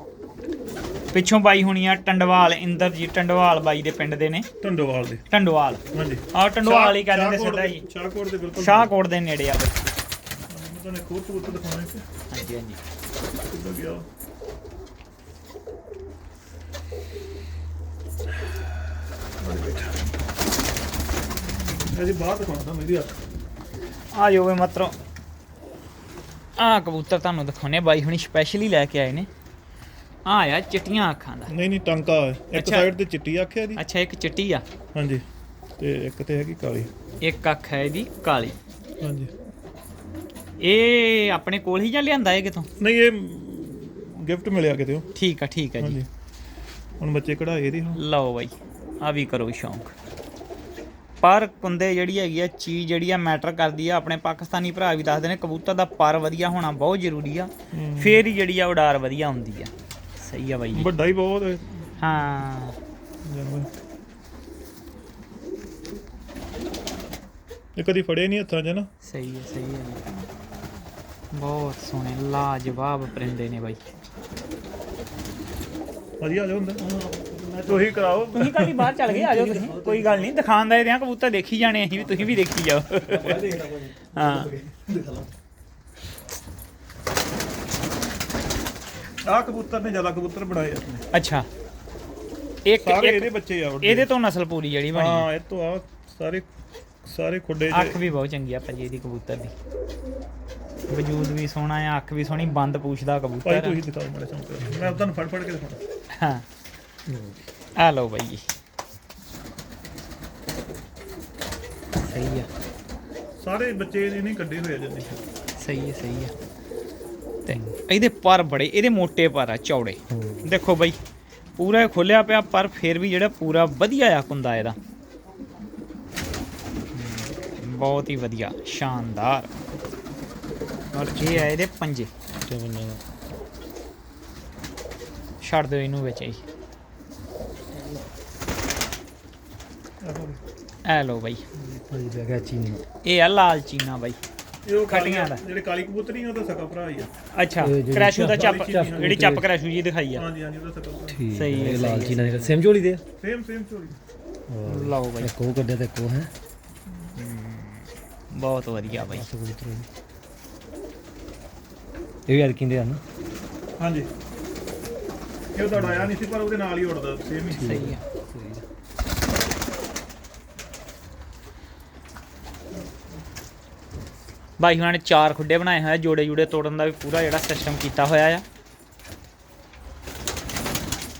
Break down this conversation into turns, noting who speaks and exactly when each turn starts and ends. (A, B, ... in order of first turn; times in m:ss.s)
0:01.1-0:04.5 A
0:04.6-0:05.2 B
0:05.3-0:05.8 A
0:05.9-0:08.9 B
0:06.3-0:07.8 A
0:08.6-0:09.8 A
0:10.5-0:12.0 B
0:12.3-0:12.8 A
0:13.5-0:14.0 B
0:19.4-0:20.0 B
0:21.8-0:23.2 B
0:24.1-0:24.9 A
0:26.6-0:29.3 A
0:30.2-0:31.5 A
0:31.5-0:33.8 B
0:32.5-0:32.9 A
0:33.8-0:34.6 A
0:34.9-0:35.2 B
0:35.8-0:36.9 B
0:37.2-0:38.6 A
0:39.0-0:39.3 B
0:40.6-0:42.7 A
0:42.8-0:45.1 B
0:45.1-0:46.0 A
0:45.8-0:46.0 B
0:47.0-0:48.0 B
0:48.0-0:49.9 A
0:51.2-1:00.9 A
0:57.7-0:58.2 B
1:00.7-1:01.8 B
1:02.0-1:02.8 A
1:03.2-1:03.7 B
1:07.8-1:08.9 B
1:09.0-1:10.1 A
1:11.3-1:13.8 A
1:16.2-1:16.8 B
1:16.8-1:18.4 C
1:17.6-1:19.5 B
1:18.3-1:23.4 A
1:19.1-1:20.3 C
1:23.1-1:25.3 C
1:24.1-1:24.5 A
1:29.2-1:31.0 B
1:31.1-1:31.5 A
1:32.6-1:35.3 A
1:32.8-1:34.1 B
1:34.9-1:36.4 B
1:37.0-1:38.0 B
1:37.7-1:39.5 A
1:40.9-1:43.8 A
1:43.4-1:45.8 B
1:46.1-1:46.4 A
1:47.1-1:47.4 C
1:47.8-1:48.4 A
1:52.0-1:52.5 A
1:53.4-1:55.1 B
1:55.6-1:56.3 A
1:57.4-2:01.0 A
1:57.5-1:57.8 C
2:00.1-2:00.5 C
2:01.6-2:04.8 A
2:06.9-2:09.6 A
2:10.9-2:12.1 A
2:12.3-2:13.0 C
2:15.4-2:16.4 A
2:20.0-2:20.4 B
2:20.8-2:21.4 A
2:21.5-2:22.8 C
2:23.0-2:24.2 A
2:24.6-2:27.1 B
2:24.9-2:25.4 A
2:27.3-2:30.2 A
2:27.6-2:29.5 C
2:28.3-2:29.2 B
2:30.1-2:31.2 B
2:31.1-2:33.0 C
2:31.3-2:32.4 A
2:33.2-2:34.0 B
2:34.5-2:36.3 C
2:34.7-2:35.3 A
2:37.1-2:39.3 A
2:38.9-2:39.9 C
2:42.3-2:43.0 C
2:43.8-2:44.1 B
2:45.5-2:47.7 B
2:45.7-2:46.1 C
2:47.5-2:48.6 C
2:47.6-2:48.0 A
2:54.6-2:58.4 A